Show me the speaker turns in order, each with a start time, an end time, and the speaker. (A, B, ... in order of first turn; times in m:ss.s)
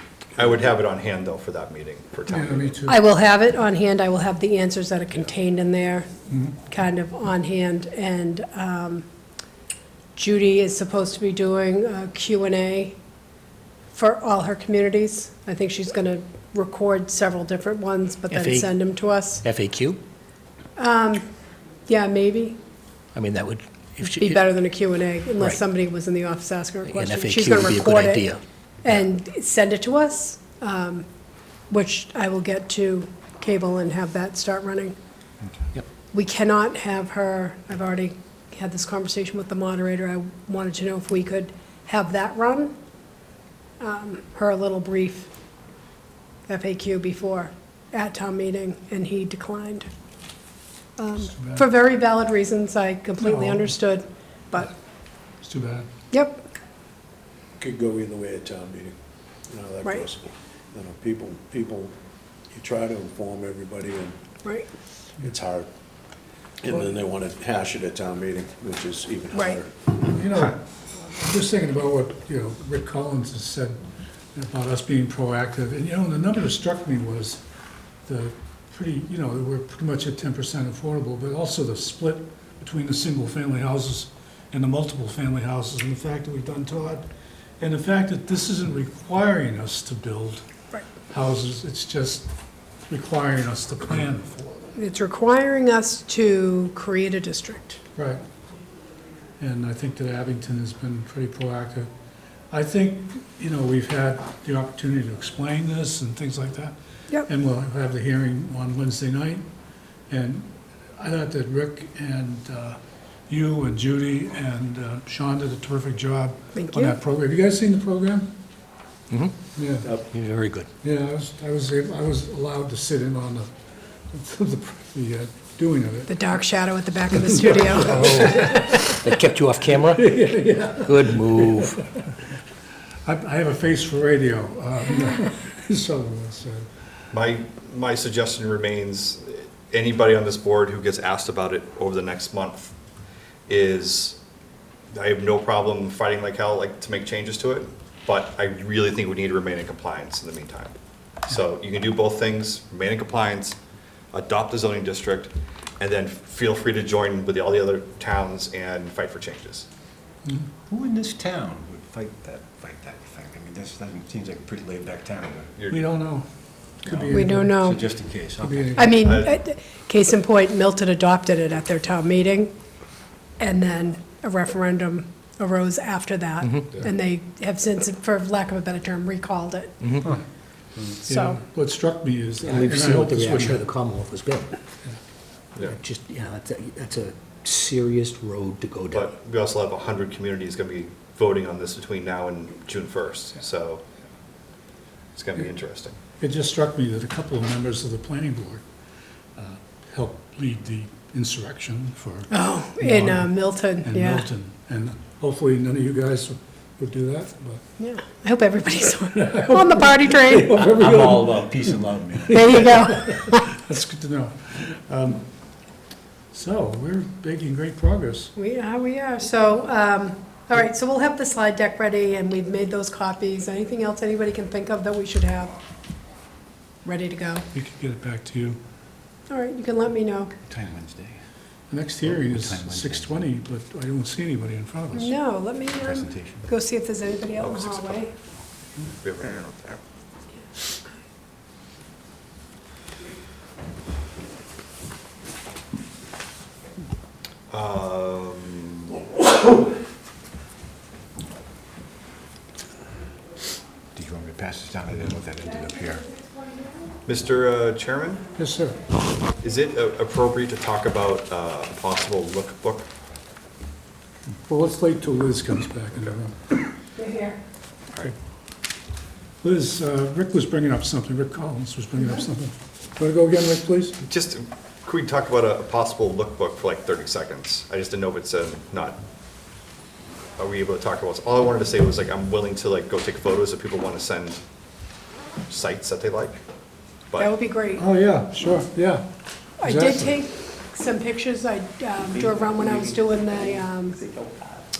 0:00.4-0:02.8 A
0:02.3-0:03.0 B
0:02.9-0:06.1 C
0:06.3-0:06.6 B
0:06.7-0:09.0 C
0:10.2-0:13.0 C
0:13.9-0:19.4 C
0:18.3-0:18.7 D
0:19.4-0:20.0 D
0:20.8-0:21.2 C
0:21.9-0:22.6 C
0:23.1-0:24.5 D
0:24.0-0:31.1 C
0:26.8-0:28.4 D
0:31.7-0:35.0 C
0:36.1-0:42.7 C
0:43.8-0:45.3 C
0:46.5-0:49.9 C
0:51.0-0:54.7 C
0:51.2-0:51.6 B
0:53.2-0:53.7 B
0:55.4-0:55.9 B
0:56.1-0:56.5 C
0:57.6-0:58.9 E
0:59.5-1:01.9 E
1:02.5-1:04.2 E
1:05.2-1:05.7 E
1:06.6-1:09.9 E
1:10.1-1:13.8 B
1:14.4-1:17.4 B
1:18.1-1:27.0 B
1:27.6-1:30.4 B
1:31.1-1:32.3 B
1:32.9-1:34.7 B
1:34.8-1:37.8 C
1:38.0-1:38.2 B
1:39.4-1:41.9 B
1:42.5-1:49.5 B
1:50.1-1:52.8 B
1:53.3-1:58.4 B
1:56.6-1:57.0 C
1:59.1-1:59.4 D
1:59.6-1:59.9 B
2:00.1-2:00.7 D
2:00.8-2:03.5 B
2:04.1-2:06.1 B
2:06.1-2:08.7 C
2:07.7-2:09.2 B
2:08.0-2:10.2 D
2:09.7-2:12.0 B
2:10.8-2:11.8 D
2:13.1-2:16.7 B
2:17.1-2:22.7 A
2:23.5-2:24.2 A
2:24.9-2:33.6 A
2:34.1-2:39.7 A
2:40.7-2:45.6 F
2:45.6-2:45.8 A
2:45.7-2:47.6 B
2:46.9-2:49.1 F
2:47.1-2:48.2 C
2:48.4-2:48.9 B
2:48.7-2:52.5 C
2:49.0-2:49.4 A
2:53.4-3:00.0 C
2:59.8-3:00.1 D
3:01.0-3:01.4 C
3:01.1-3:03.7 B
3:02.4-3:04.6 D
3:05.6-3:09.1 D
3:08.9-3:13.8 A
3:15.2-3:16.0 A
3:16.2-3:18.6 B
3:19.4-3:23.3 B
3:22.3-3:24.2 C
3:23.8-3:27.6 B
3:27.8-3:30.6 C
3:29.2-3:31.8 B
3:30.5-3:32.9 F
3:32.3-3:33.4 C
3:32.3-3:35.2 B
3:36.3-3:38.3 B
3:38.4-3:45.5 C
3:46.8-3:47.5 C
3:47.5-3:48.6 B
3:49.3-3:50.3 C
3:50.5-3:51.2 F
3:51.7-3:55.1 B
3:52.0-3:53.3 F
3:54.9-3:58.1 C
3:55.8-3:56.5 F
3:57.4-3:58.0 A
3:58.9-3:59.8 A
4:07.5-4:09.0 A
4:14.0-4:16.1 F
4:17.1-4:18.3 A
4:18.4-4:18.8 B
4:19.4-4:22.9 A
4:24.5-4:26.6 B
4:27.0-4:27.4 C
4:29.4-4:34.0 B
4:34.0-4:39.0 A
4:40.4-4:44.4 A
4:45.5-4:46.4 A
4:47.2-4:47.8 C
4:47.8-4:49.1 B
4:49.6-4:50.2 B
4:49.6-4:54.0 C